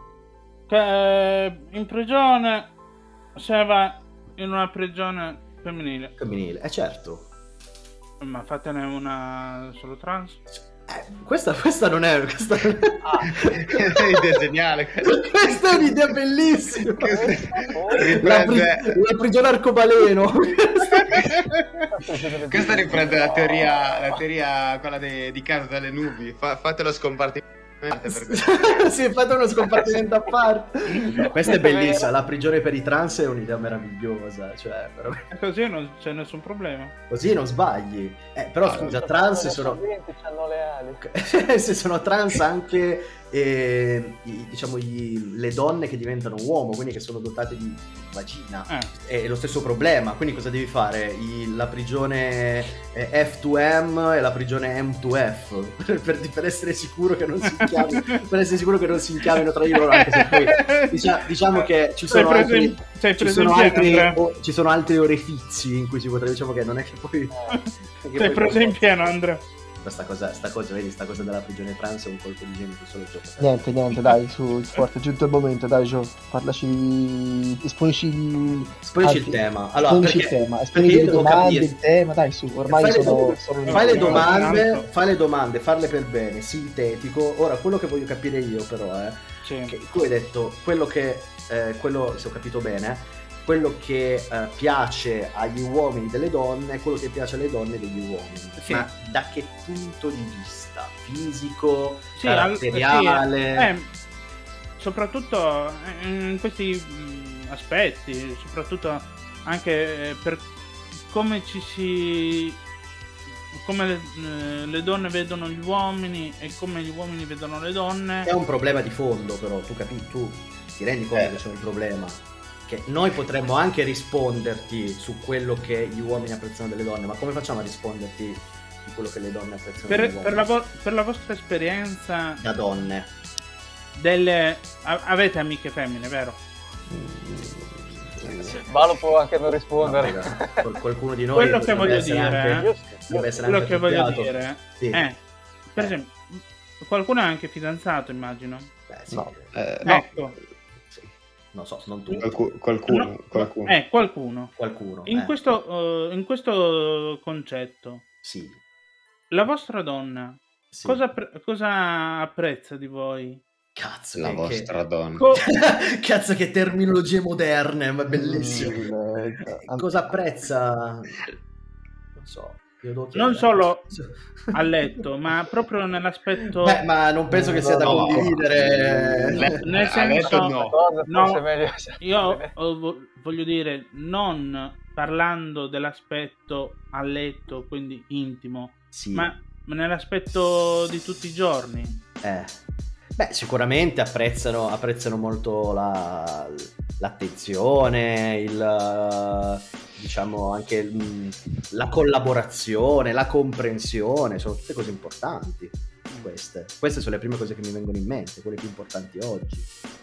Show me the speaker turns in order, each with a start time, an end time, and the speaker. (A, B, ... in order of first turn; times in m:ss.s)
0:00.7-0:02.7 A
0:03.4-0:06.2 A
0:06.2-0:07.3 B
0:08.2-0:10.4 A
0:10.5-0:14.4 B
0:13.0-0:13.3 C
0:13.5-0:16.2 D
0:15.0-0:21.3 B
0:17.0-0:19.0 D
0:17.0-0:18.2 C
0:21.9-0:24.2 C
0:22.5-0:28.9 D
0:28.1-0:35.3 B
0:31.4-0:32.1 C
0:35.3-0:36.9 A
0:37.1-0:39.8 B
0:38.6-0:38.9 D
0:38.8-0:41.0 C
0:41.0-1:07.4 B
0:57.6-0:58.2 A
0:59.3-1:01.0 A
1:01.5-1:04.2 A
1:07.3-1:07.7 C
1:07.5-1:09.4 A
1:07.9-1:09.1 B
1:09.8-1:13.7 B
1:13.4-1:24.4 E
1:18.8-1:21.7 B
1:22.7-1:43.7 B
1:23.6-1:24.9 A
1:29.4-1:29.8 A
1:38.6-1:38.9 A
1:42.2-1:43.9 A
1:44.8-1:50.5 A
1:51.1-1:52.6 A
1:53.5-1:58.3 A
1:58.2-2:10.5 B
2:09.9-2:12.4 A
2:12.4-2:13.1 B
2:14.0-2:16.4 A
2:16.9-2:18.6 E
2:18.6-2:20.7 C
2:19.8-2:25.0 B
2:21.3-2:22.7 A
2:21.8-2:23.4 C
2:23.4-2:28.7 A
2:28.9-2:29.5 B
2:29.5-2:30.2 D
2:29.8-2:30.4 A
2:30.9-2:32.6 B
2:32.2-2:33.7 D
2:32.9-2:33.1 A
2:33.7-2:38.0 A
2:34.6-2:35.4 B
2:38.2-2:38.6 B
2:39.3-2:43.4 A
2:40.7-2:41.0 B
2:43.8-2:44.7 B
2:44.2-2:45.2 D
2:45.2-2:45.5 A
2:45.4-2:48.9 B
2:48.1-2:50.1 E
2:49.7-2:51.2 B
2:52.2-2:54.5 B
2:53.1-2:53.9 A
2:54.5-2:56.8 A
2:56.6-2:59.6 B
2:57.3-2:59.5 E
2:57.9-2:58.3 A
2:59.3-3:00.8 D
2:59.6-3:00.6 A
3:00.2-3:02.5 C
3:01.1-3:01.4 A
3:02.0-3:12.0 A
3:08.9-3:09.3 B
3:12.2-3:12.6 B
3:13.2-3:29.7 B